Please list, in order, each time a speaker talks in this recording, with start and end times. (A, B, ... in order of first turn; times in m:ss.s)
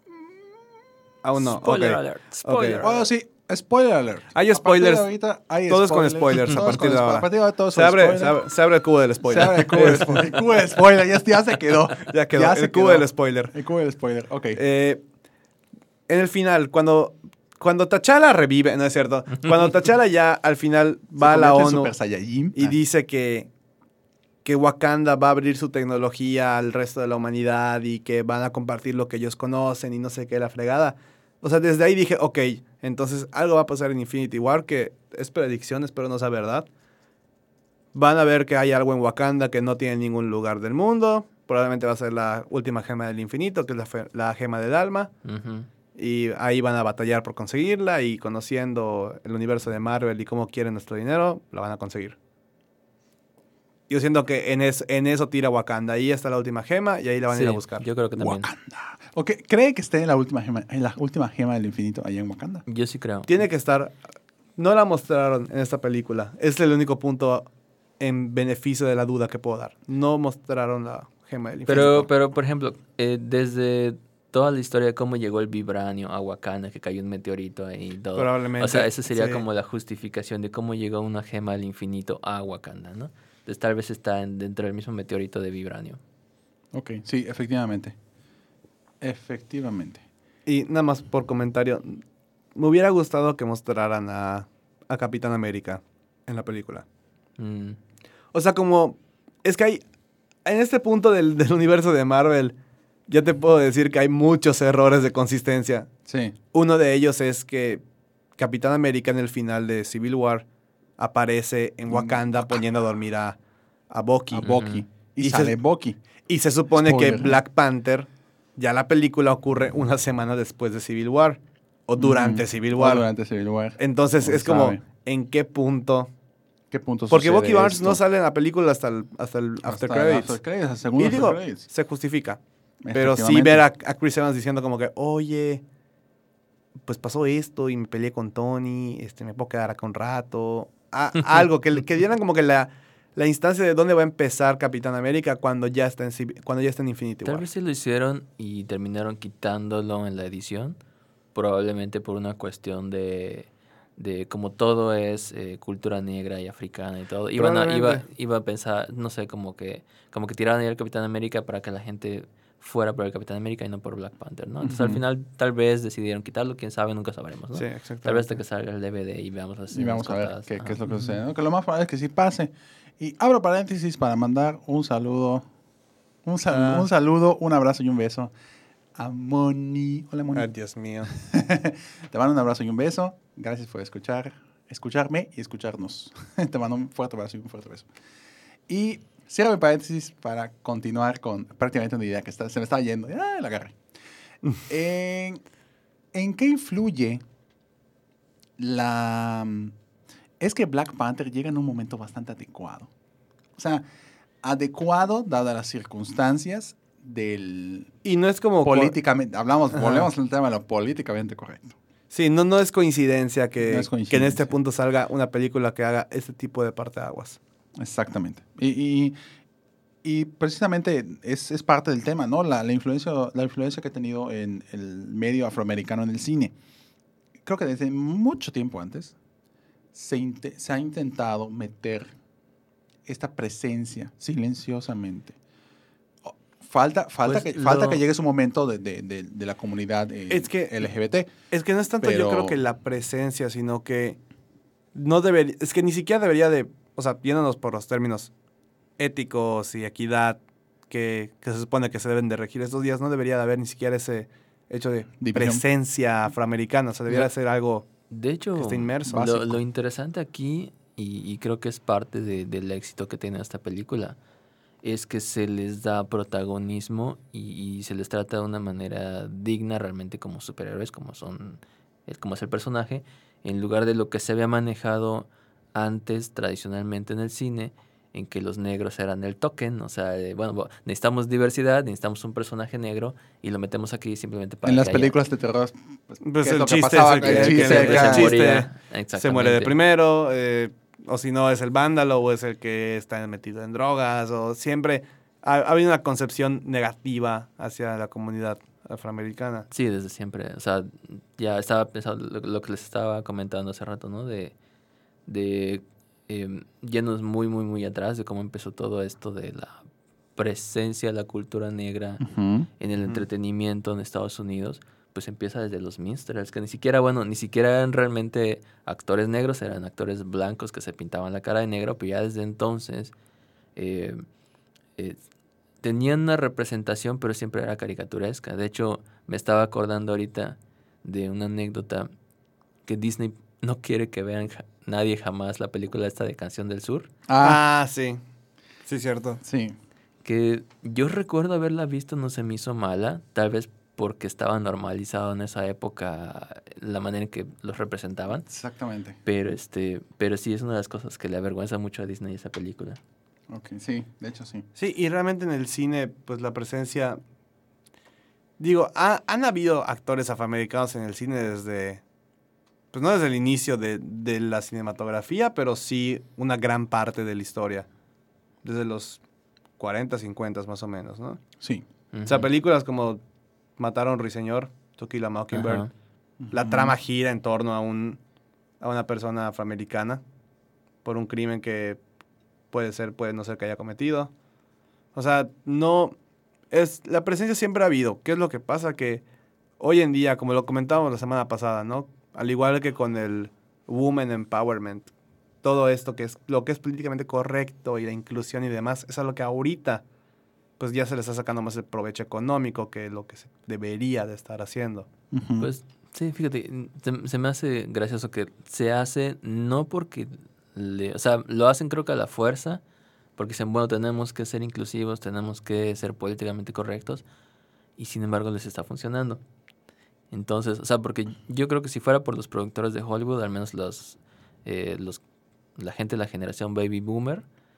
0:01.2-0:02.9 A
0:01.5-0:03.1 B
0:02.8-0:08.5 C
0:04.3-0:05.1 A
0:05.7-0:10.6 A
0:09.2-0:14.6 C
0:12.0-0:13.5 A
0:14.5-0:15.0 A
0:16.1-0:21.9 A
0:21.2-0:22.8 C
0:22.5-0:23.5 A
0:24.4-0:36.6 A
0:37.9-0:45.1 A
0:45.2-0:45.7 B
0:45.9-0:52.2 A
0:53.9-0:57.8 A
0:57.3-0:58.5 B
0:58.2-1:02.6 C
1:02.7-1:03.3 B
1:03.3-1:03.9 A
1:04.6-1:07.5 A
1:08.0-1:12.1 A
1:11.7-1:26.0 B
1:18.2-1:19.4 A
1:26.7-1:28.0 C
1:29.0-1:30.0 C
1:30.4-1:32.0 A
1:32.5-1:36.8 A
1:37.4-1:37.8 B
1:38.3-1:39.8 A
1:40.4-1:42.5 A
1:43.1-1:45.9 A
1:46.0-1:46.4 C
1:46.5-1:47.8 A
1:48.4-1:50.4 A
1:51.0-1:53.4 A
1:51.9-1:52.6 C
1:53.9-1:54.6 A
1:54.3-1:56.0 C
1:54.4-1:54.8 B
1:55.2-1:55.6 A
1:56.3-2:03.1 A
1:56.7-1:57.4 C
2:02.0-2:04.8 C
2:03.8-2:06.1 A
2:06.7-2:08.0 C
2:07.1-2:10.4 A
2:09.6-2:11.6 C
2:11.0-2:12.4 A
2:12.8-2:13.6 C
2:12.9-2:15.6 A
2:16.8-2:27.5 A
2:27.2-2:30.8 B
2:31.3-2:50.8 B
2:37.4-2:38.0 A
2:44.6-2:45.0 C
2:47.5-2:48.3 A
2:49.7-2:55.4 C
2:56.2-2:58.3 C
2:56.5-2:56.9 A
2:58.9-3:00.5 C
3:00.3-3:01.1 A
3:01.2-3:07.9 C
3:08.7-3:13.8 C
3:14.7-3:15.4 C
3:16.1-3:17.2 C
3:18.6-3:19.7 C
3:20.4-3:22.9 C
3:23.6-3:23.8 C
3:24.4-3:27.9 C
3:28.0-3:28.9 A
3:28.6-3:31.8 C
3:29.7-3:30.1 A
3:32.1-3:37.4 A
3:33.6-3:34.5 C
3:37.8-3:39.2 C
3:40.0-3:46.5 C
3:47.4-3:49.1 C
3:49.9-3:52.1 C
3:53.0-3:55.4 C
3:56.2-4:01.3 C
3:57.2-3:58.0 A
4:00.3-4:00.9 A
4:01.5-4:04.2 A
4:02.0-4:02.6 C
4:04.9-4:08.3 A
4:09.0-4:10.4 A
4:10.9-4:17.8 A
4:15.2-4:15.6 C
4:18.1-4:24.2 B
4:18.6-4:19.5 A
4:19.1-4:19.3 C
4:24.8-4:45.1 B
4:44.6-4:48.4 C
4:46.2-4:59.7 A
4:47.2-4:49.7 B
4:59.7-5:04.5 B
5:05.2-5:09.8 B
5:10.4-5:12.2 B
5:12.2-5:12.7 C
5:12.8-5:23.1 B
5:23.8-5:24.2 B
5:25.8-5:32.1 B
5:32.8-5:37.1 B
5:37.3-5:37.6 C
5:37.4-5:38.2 A
5:38.9-5:39.4 A
5:39.4-5:39.8 C
5:40.2-5:48.4 B
5:48.4-5:49.2 C
5:49.2-5:53.0 B
5:53.5-5:54.6 C
5:54.8-5:57.2 A
5:58.6-6:02.0 A
6:02.9-6:07.9 A
6:08.6-6:09.2 A
6:09.8-6:11.4 A
6:11.6-6:11.8 C
6:12.1-6:12.5 B
6:12.2-6:13.2 A
6:13.8-6:15.8 A
6:15.5-6:15.9 B
6:16.4-6:17.0 C
6:16.5-6:18.2 A
6:18.8-6:20.2 A
6:21.0-6:22.0 A
6:22.7-6:24.3 A
6:25.1-6:26.1 A
6:26.7-6:29.2 A
6:29.8-6:35.1 A
6:35.6-6:40.0 A
6:40.8-6:45.1 A
6:45.3-6:45.7 C
6:45.6-6:52.8 B
6:53.4-6:57.2 B
6:58.0-6:59.4 B
7:00.3-7:05.2 B
7:05.8-7:07.4 B